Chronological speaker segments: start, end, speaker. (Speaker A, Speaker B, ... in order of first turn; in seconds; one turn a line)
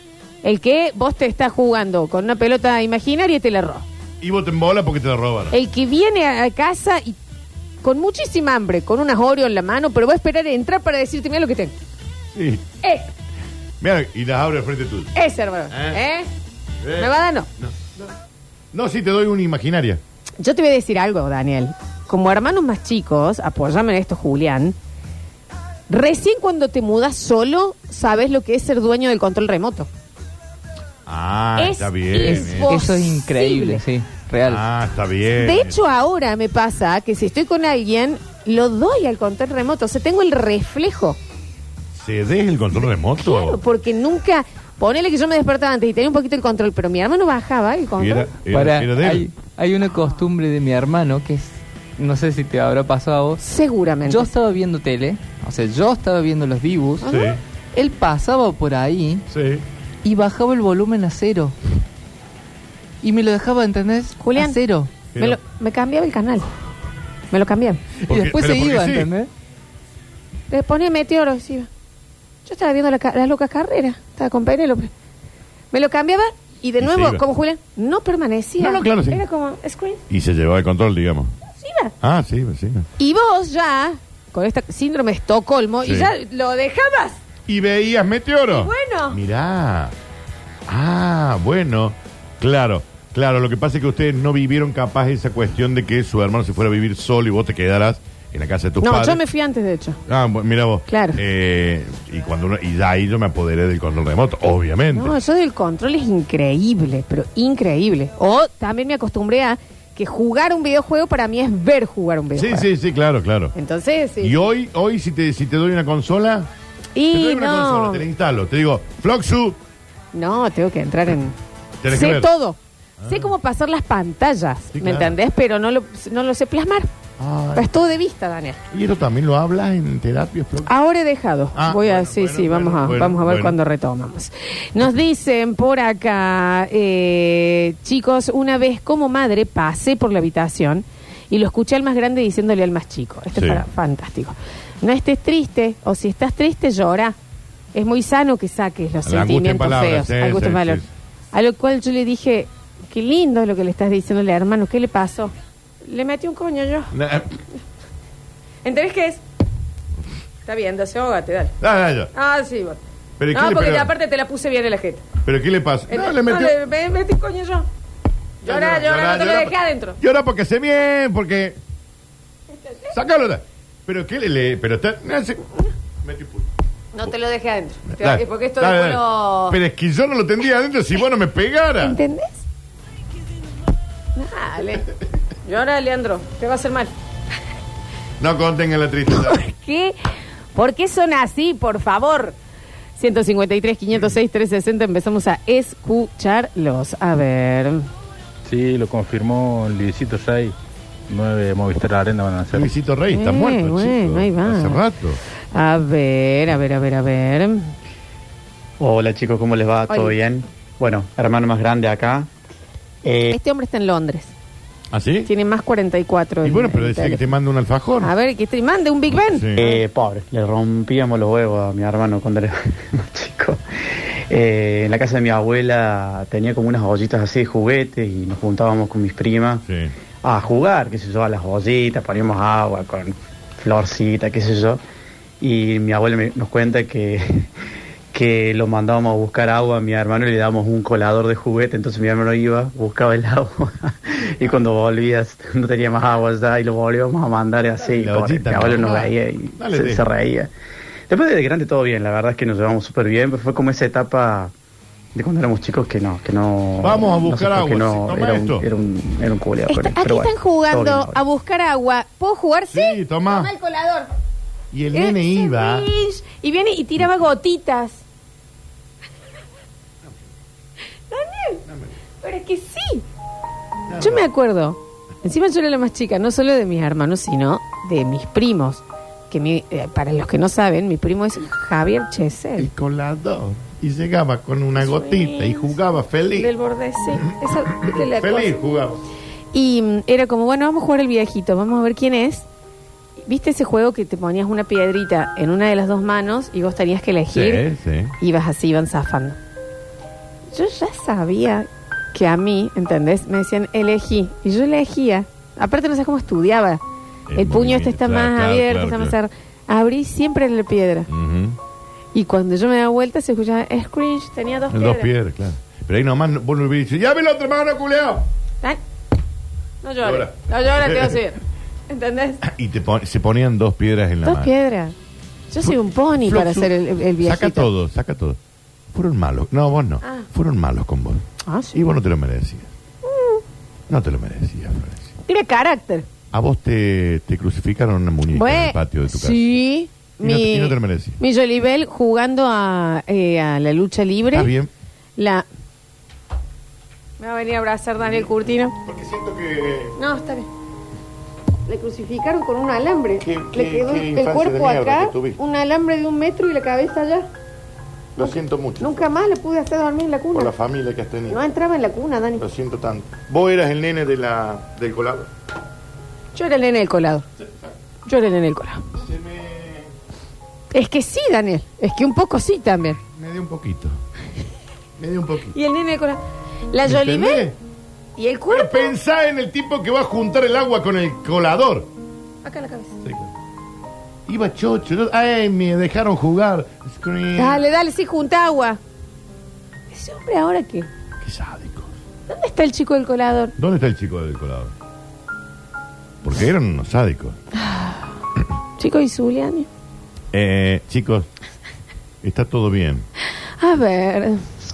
Speaker A: 0.4-3.8
Speaker B: 4.2-5.5
Speaker A: 5.5-7.2
Speaker A: 7.8-11.7
Speaker B: 12.3-12.6
Speaker A: 12.8-13.1
Speaker B: 13.8-15.1
Speaker A: 15.1-16.3
Speaker B: 15.7-16.0
Speaker B: 16.8-18.1
Speaker A: 16.9-17.5
Speaker B: 18.7-20.0
Speaker A: 20.4-24.7
Speaker A: 25.9-29.9
Speaker B: 31.1-32.8
Speaker A: 31.6-33.8
Speaker C: 32.2-34.6
Speaker B: 34.5-35.8
Speaker A: 35.4-41.2
Speaker B: 41.9-43.6
Speaker A: 43.2-48.3
Speaker B: 48.0-49.3
Speaker C: 48.5-53.4
Speaker A: 53.4-54.3
Speaker C: 54.0-57.1
Speaker A: 57.0-57.4
Speaker B: 57.0-57.4
Speaker C: 57.7-59.2
Speaker B: 59.3-59.6
Speaker C: 60.0-61.5
Speaker C: 63.0-65.0
Speaker A: 64.2-64.6
Speaker B: 65.1-65.4
Speaker A: 65.2-66.5
Speaker A: 67.3-67.8
Speaker B: 68.1-69.1
Speaker C: 68.1-69.3
Speaker A: 70.5-71.7
Speaker A: 72.5-74.9
Speaker A: 75.7-80.0
Speaker B: 76.8-77.2
Speaker B: 78.6-79.2
Speaker B: 80.1-81.3
Speaker A: 81.5-81.9
Speaker B: 82.0-82.9
Speaker A: 83.0-87.2
Speaker B: 85.8-86.1
Speaker B: 87.5-89.9
Speaker A: 88.5-89.2
Speaker B: 90.7-99.2
Speaker A: 98.8-100.0
Speaker B: 100.1-105.2
Speaker A: 100.9-101.2
Speaker A: 104.9-112.7
Speaker B: 112.3-113.5
Speaker A: 113.5-114.4
Speaker B: 114.2-116.5
Speaker A: 117.0-118.0
Speaker B: 117.1-119.6
Speaker A: 120.1-121.3
Speaker B: 121.8-122.3
Speaker A: 121.9-126.9
Speaker B: 123.0-123.3
Speaker B: 124.7-125.2
Speaker B: 127.2-127.8
Speaker A: 127.5-128.6
Speaker B: 128.7-130.7
Speaker A: 130.7-147.2
Speaker B: 131.5-133.6
Speaker B: 143.3-143.6
Speaker A: 147.7-155.3
Speaker B: 149.0-150.9
Speaker A: 155.8-156.9
Speaker B: 156.9-157.4
Speaker A: 158.6-159.2
Speaker A: 160.4-161.5
Speaker B: 161.6-162.1
Speaker A: 162.1-162.8
Speaker B: 163.2-163.9
Speaker A: 163.3-165.0
Speaker B: 165.2-166.6
Speaker A: 165.9-167.7
Speaker A: 168.4-170.0
Speaker B: 168.4-171.6
Speaker A: 172.6-172.9
Speaker B: 172.9-175.4
Speaker B: 176.0-176.5
Speaker A: 176.9-179.6
Speaker B: 177.9-182.0
Speaker A: 181.8-182.4
Speaker A: 184.2-184.8
Speaker A: 185.4-186.9
Speaker B: 188.2-189.4
Speaker A: 189.1-189.9
Speaker A: 190.5-192.3
Speaker A: 193.0-197.8
Speaker D: 198.4-200.5
Speaker D: 201.1-202.7
Speaker B: 202.5-205.2
Speaker A: 203.1-204.8
Speaker A: 205.5-207.7
Speaker E: 208.8-212.3
Speaker A: 209.9-210.1
Speaker E: 213.0-213.3
Speaker A: 213.3-214.3
Speaker B: 214.9-215.3
Speaker A: 215.2-217.3
Speaker B: 216.4-218.1
Speaker A: 218.0-219.8
Speaker B: 219.1-219.6
Speaker E: 219.6-229.6
Speaker B: 229.7-229.9
Speaker E: 230.2-234.8
Speaker E: 235.4-237.5
Speaker E: 238.1-250.5
Speaker B: 247.9-250.1
Speaker E: 251.1-254.5
Speaker E: 255.1-261.2
Speaker B: 256.8-258.6
Speaker A: 259.7-264.1
Speaker B: 262.7-263.5
Speaker B: 264.7-265.9
Speaker A: 264.9-268.0
Speaker A: 271.1-271.6
Speaker B: 271.6-271.9
Speaker A: 272.2-273.0
Speaker B: 273.9-274.2
Speaker A: 274.0-282.7
Speaker B: 282.6-286.5
Speaker A: 284.8-285.8
Speaker A: 286.3-288.5
Speaker B: 287.7-289.0
Speaker A: 289.5-292.5
Speaker A: 293.2-297.6
Speaker B: 297.3-298.1
Speaker A: 298.2-299.4
Speaker A: 300.5-306.8
Speaker B: 307.3-309.1
Speaker A: 307.4-311.1
Speaker B: 311.1-311.6
Speaker A: 312.1-315.1
Speaker B: 314.7-318.2
Speaker A: 319.8-322.4
Speaker B: 320.0-321.2
Speaker B: 322.4-324.5
Speaker A: 324.2-324.9
Speaker A: 325.5-327.7
Speaker B: 325.6-328.4
Speaker B: 328.9-332.7
Speaker A: 330.0-330.3
Speaker A: 331.4-331.8
Speaker A: 333.0-333.4
Speaker B: 333.9-335.1
Speaker A: 335.3-336.1
Speaker B: 336.3-339.4
Speaker A: 338.3-344.5
Speaker B: 340.2-341.2
Speaker B: 344.3-344.7
Speaker A: 345.2-345.4
Speaker A: 347.2-348.7
Speaker B: 348.8-349.9
Speaker A: 350.0-350.5
Speaker A: 351.7-357.3
Speaker B: 353.2-355.4
Speaker B: 358.1-359.0
Speaker A: 358.2-360.5
Speaker B: 360.3-361.4
Speaker A: 361.3-362.4
Speaker B: 362.4-365.3
Speaker A: 366.3-367.2
Speaker B: 367.4-367.8
Speaker A: 368.1-368.8
Speaker B: 368.9-369.9
Speaker A: 370.7-373.0
Speaker B: 373.1-374.0
Speaker B: 375.0-375.6
Speaker A: 375.5-377.5
Speaker B: 376.8-377.5
Speaker A: 378.2-378.9
Speaker B: 378.5-381.9
Speaker A: 382.4-382.9
Speaker B: 383.0-383.3
Speaker B: 384.3-387.6
Speaker A: 387.4-388.8
Speaker A: 389.9-390.9
Speaker B: 391.2-392.0
Speaker A: 392.3-393.5
Speaker B: 393.6-394.7
Speaker B: 396.2-397.4
Speaker A: 397.5-398.1
Speaker A: 398.8-399.7
Speaker B: 400.3-401.3
Speaker B: 402.2-403.0
Speaker A: 403.6-404.4